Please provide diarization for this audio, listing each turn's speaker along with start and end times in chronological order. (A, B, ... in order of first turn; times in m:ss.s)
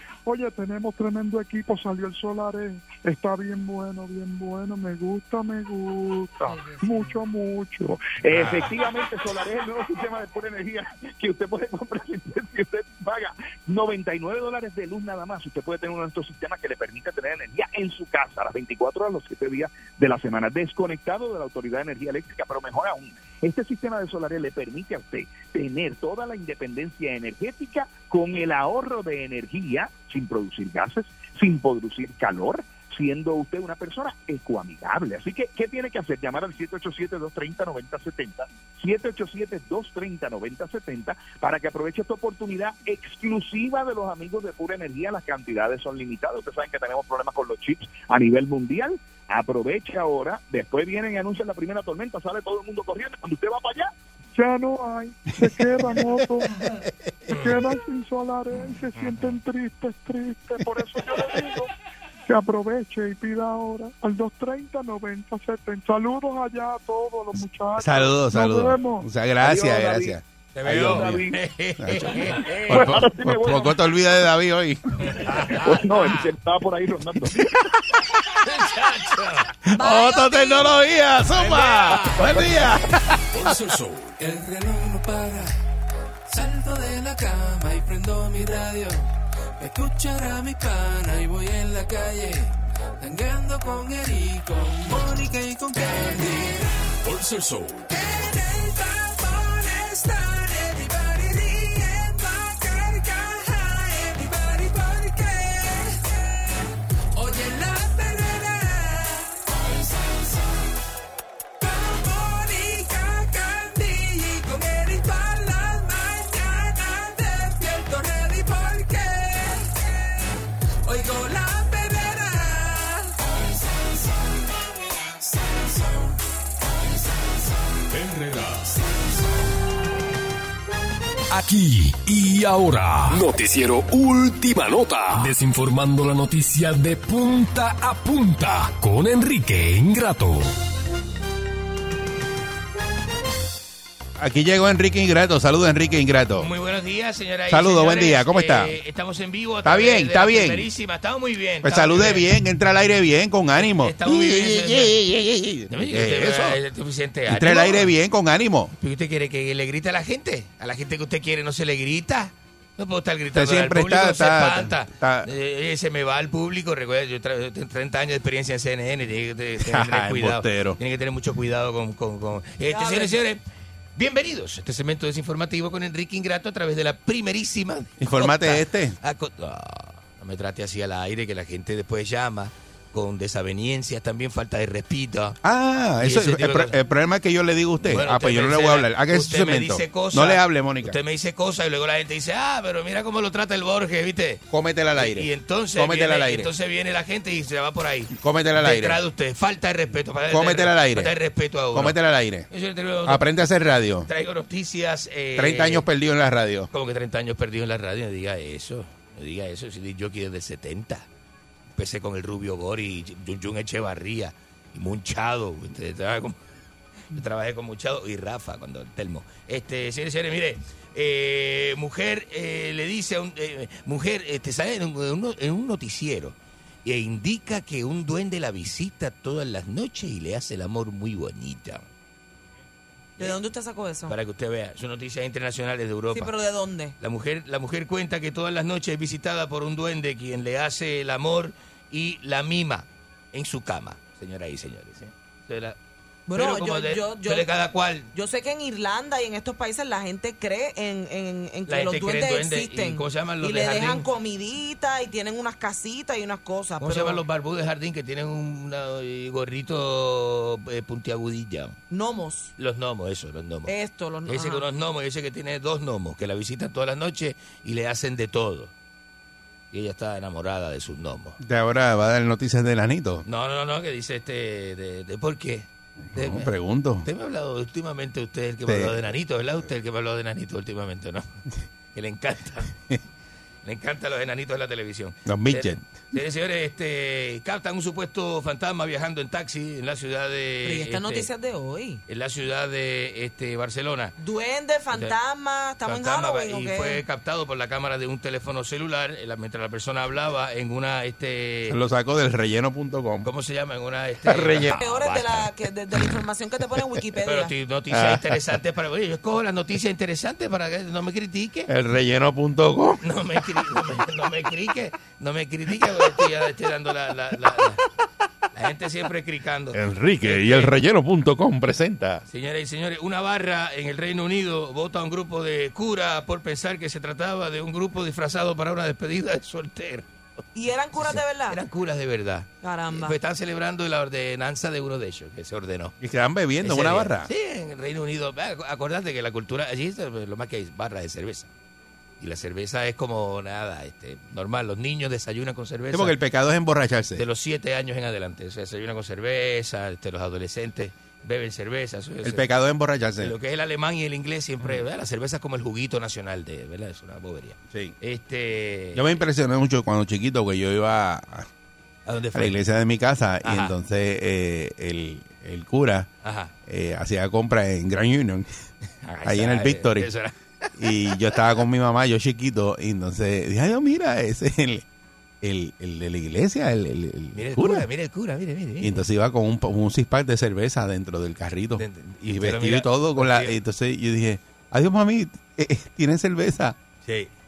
0:00.2-0:08.0 A
0:06.5-0:07.1 B
0:07.9-0:53.9 C
0:08.3-0:08.7 D
0:54.4-0:56.6 A
0:57.3-0:57.6 D
0:57.3-1:01.7 A
0:59.0-0:59.3 D
1:02.3-1:09.1 A
1:07.8-1:11.2 E
1:09.4-1:11.4 C
1:10.6-1:13.1 D
1:11.8-1:15.3 E
1:12.7-1:13.8 C
1:15.0-1:16.3 D
1:15.5-1:17.5 C
1:17.4-1:18.4 E
1:18.4-1:19.5 D
1:19.6-1:23.6 E
1:19.7-1:20.8 B
1:21.3-1:22.5 D
1:23.3-1:24.2 F
1:24.2-1:25.6 G
1:26.3-1:36.8 G
1:37.0-1:37.9 F
1:37.9-1:50.8 G
1:51.6-2:06.2 G
2:06.8-2:07.9 G
2:07.9-2:08.8 F
2:11.3-2:20.5 F
2:24.2-2:26.5 E
2:26.4-2:32.3 D
2:27.5-2:28.8 E
2:29.6-2:30.7 E
2:31.6-2:36.6 E
2:33.6-2:35.0 D
2:35.7-2:37.9 D
2:37.3-2:38.7 E
2:38.8-2:53.4 D
2:43.3-2:45.3 E
2:49.6-2:50.8 E
2:52.7-2:53.2 B
2:54.0-3:05.4 D
2:58.0-2:59.0 E
3:05.4-3:11.0 E
3:06.0-3:06.8 D
3:07.8-3:22.0 D
3:14.5-3:16.5 E
3:18.2-3:19.0 E
3:20.3-3:21.1 E
3:21.7-3:22.5 E
3:22.5-3:23.3 D
3:23.0-3:24.1 E
3:24.1-3:25.9 D
3:25.4-3:26.7 E
3:26.7-3:31.1 D
3:31.8-3:36.4 D
3:37.1-3:51.8 D
3:53.2-3:54.2 B
3:54.1-3:56.3 D
3:56.1-3:57.0 B
3:57.0-4:05.8 D
4:06.3-4:07.5 B
4:06.3-4:08.1 D
4:08.1-4:17.2 B
4:11.7-4:14.1 D
4:16.8-4:21.8 D
4:21.9-4:22.5 B
4:22.6-4:23.7 D
4:23.7-4:24.6 B
4:24.3-4:28.7 D
4:29.7-4:31.4 D
4:31.4-4:33.2 E
4:33.3-4:36.5 D
4:36.1-4:37.1 E
4:37.0-4:41.3 D
4:38.7-4:38.9 E
4:41.9-4:42.7 D
4:43.6-4:51.3 D
4:45.3-4:45.8 E
4:50.6-4:52.0 B
4:52.1-4:54.2 D
4:54.2-4:57.0 B
4:55.8-5:01.8 D
5:01.7-5:03.3 E
5:03.2-5:05.5 D
5:04.3-5:04.8 E
5:04.8-5:07.5 B
5:07.2-5:11.7 D
5:07.9-5:08.4 E
5:11.7-5:13.1 E
5:13.0-5:17.8 D
5:18.5-5:20.8 D
5:19.7-5:22.2 E
5:22.3-5:30.1 D
5:30.6-5:31.6 B
5:31.0-5:35.9 D
5:32.6-5:33.2 B
5:36.0-5:37.3 E
5:36.6-5:41.5 D
5:42.2-5:46.2 D
5:45.9-5:47.2 E
5:47.2-5:52.5 D
5:52.2-5:53.4 E
5:53.2-5:59.2 D
5:59.0-6:01.5 E
6:02.1-6:02.6 D
6:02.3-6:06.1 E
6:03.4-6:03.7 D
6:06.2-6:06.5 D
6:06.7-6:08.5 E
6:09.0-6:11.6 D
6:09.2-6:10.1 E
6:10.8-6:14.8 E
6:15.4-6:17.9 E
6:17.3-6:19.0 D
6:18.8-6:26.8 E
6:21.8-6:23.5 D
6:27.0-6:27.3 D